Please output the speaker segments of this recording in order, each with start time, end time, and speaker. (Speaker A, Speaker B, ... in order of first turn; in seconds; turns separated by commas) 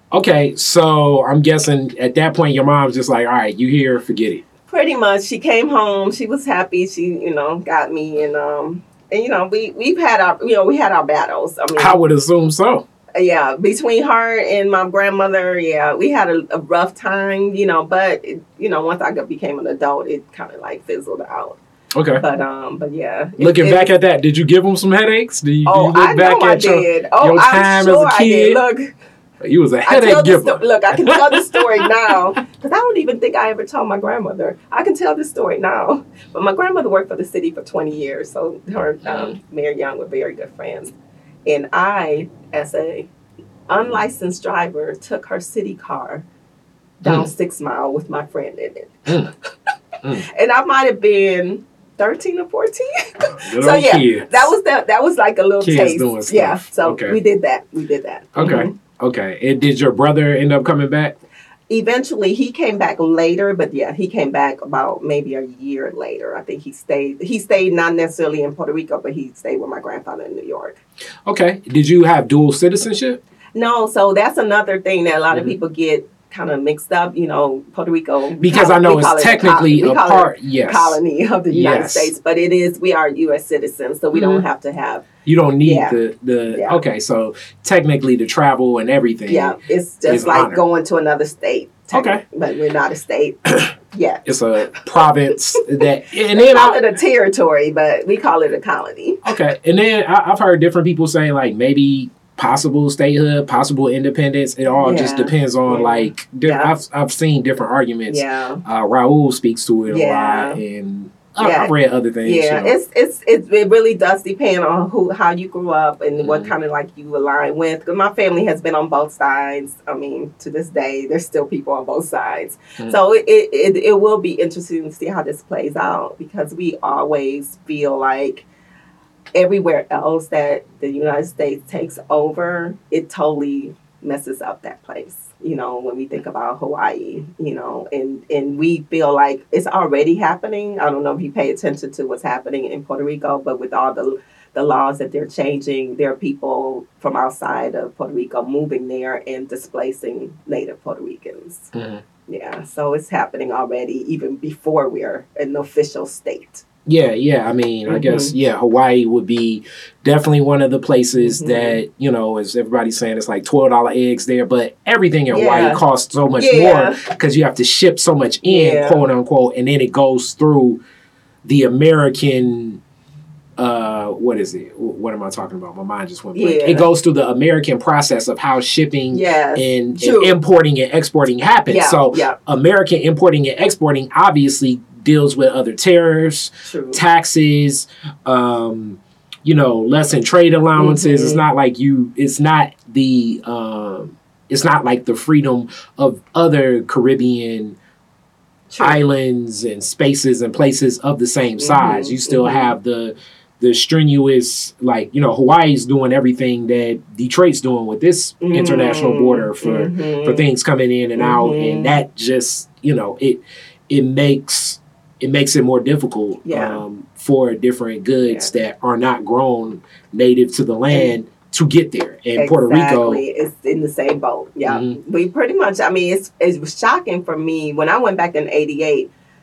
Speaker A: 0.1-4.4, Speaker B: 4.7-12.0, Speaker A: 11.8-12.8, Speaker B: 13.2-21.6, Speaker A: 21.9-22.2, Speaker B: 22.1-23.9, Speaker A: 23.4-28.6, Speaker B: 25.6-28.9, Speaker A: 29.4-31.8, Speaker B: 29.8-40.9, Speaker A: 39.0-39.3, Speaker B: 41.5-43.1, Speaker B: 43.7-46.2, Speaker B: 47.0-49.3, Speaker A: 47.0-47.3, Speaker A: 49.1-49.3, Speaker B: 50.2-58.7, Speaker A: 53.3-54.5, Speaker A: 55.6-57.2, Speaker A: 58.3-61.1, Speaker B: 61.7-70.8, Speaker A: 71.2-73.2, Speaker B: 73.5-85.1, Speaker A: 78.4-81.0, Speaker A: 81.5-82.1, Speaker A: 84.1-84.4, Speaker A: 85.2-90.6, Speaker B: 85.6-86.0, Speaker B: 86.5-86.8, Speaker B: 89.3-93.4, Speaker A: 91.9-92.2, Speaker B: 93.9-95.1, Speaker A: 94.2-96.8, Speaker B: 96.3-99.2, Speaker A: 99.2-112.7, Speaker B: 104.7-106.7, Speaker B: 108.1-108.6, Speaker B: 109.9-110.6, Speaker B: 111.4-128.5, Speaker A: 116.2-116.5, Speaker B: 129.3-151.7, Speaker A: 151.7-152.0, Speaker B: 152.3-156.6, Speaker A: 156.8-170.8, Speaker B: 157.9-158.3, Speaker B: 161.2-161.8, Speaker B: 165.3-165.8, Speaker B: 166.4-167.0, Speaker B: 168.4-169.0, Speaker A: 171.4-172.8, Speaker A: 173.6-197.8, Speaker B: 176.3-176.9, Speaker B: 179.1-180.4, Speaker B: 181.7-182.4, Speaker B: 186.6-187.0, Speaker B: 190.8-191.4, Speaker B: 198.7-199.0, Speaker A: 198.8-223.2, Speaker B: 201.6-202.7, Speaker B: 208.4-210.5, Speaker B: 211.2-211.9, Speaker B: 216.4-216.8, Speaker B: 218.2-218.5, Speaker B: 222.3-229.1, Speaker A: 224.7-225.0